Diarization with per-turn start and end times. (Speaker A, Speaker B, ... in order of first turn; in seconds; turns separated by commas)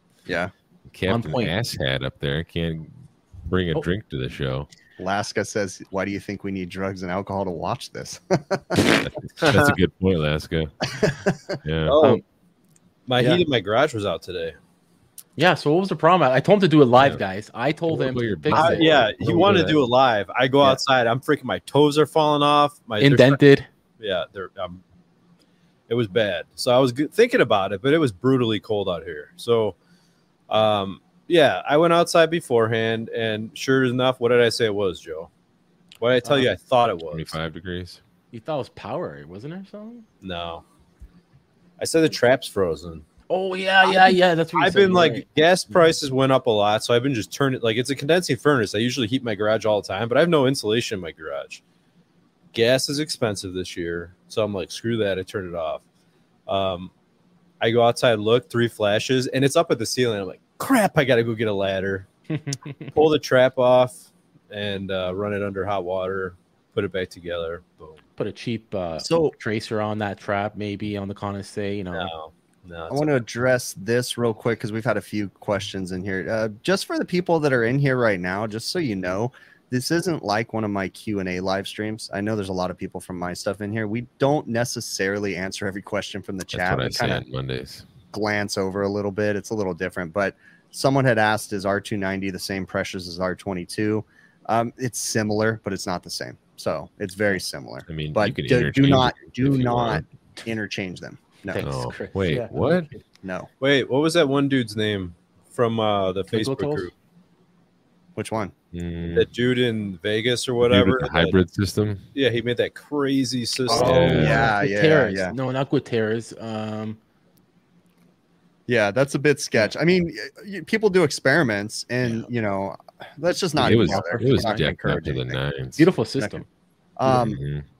Speaker A: 0.3-0.5, Speaker B: 0.9-4.7, Speaker C: 1.1-1.5, Speaker A: 5.0-9.0, Speaker B: 8.8-10.7, Speaker D: 9.4-9.7, Speaker A: 11.0-11.4, Speaker B: 11.6-12.0, Speaker D: 11.8-12.2, Speaker D: 13.1-14.6, Speaker C: 15.4-18.9, Speaker B: 17.9-19.8, Speaker D: 18.5-23.4, Speaker C: 23.0-23.7, Speaker D: 24.0-24.8, Speaker D: 25.9-29.8, Speaker D: 30.5-35.3, Speaker D: 36.0-37.4, Speaker C: 36.2-36.5, Speaker B: 37.1-38.0, Speaker C: 38.3-40.0, Speaker D: 40.2-40.6, Speaker D: 41.8-43.0, Speaker C: 43.3-45.2, Speaker D: 43.8-51.6, Speaker D: 52.5-55.8, Speaker D: 56.5-56.9, Speaker D: 57.6-62.1, Speaker C: 62.3-62.9, Speaker D: 62.9-68.0, Speaker C: 68.2-72.1, Speaker A: 69.0-69.3, Speaker D: 71.9-73.2, Speaker A: 72.9-87.2, Speaker B: 86.5-87.8, Speaker A: 88.1-101.6, Speaker B: 97.9-100.1, Speaker C: 101.5-102.9, Speaker B: 101.6-102.9, Speaker A: 103.2-103.5, Speaker D: 103.6-106.9, Speaker C: 106.3-106.9, Speaker A: 108.2-108.5, Speaker B: 108.7-109.3, Speaker D: 109.1-111.4, Speaker B: 110.6-112.0, Speaker D: 112.1-114.5, Speaker A: 113.7-115.3, Speaker B: 113.7-114.5, Speaker C: 114.0-117.0, Speaker A: 118.7-125.4, Speaker B: 123.6-125.9, Speaker C: 123.6-124.6, Speaker C: 125.8-126.5, Speaker A: 127.0-127.4, Speaker B: 127.0-127.6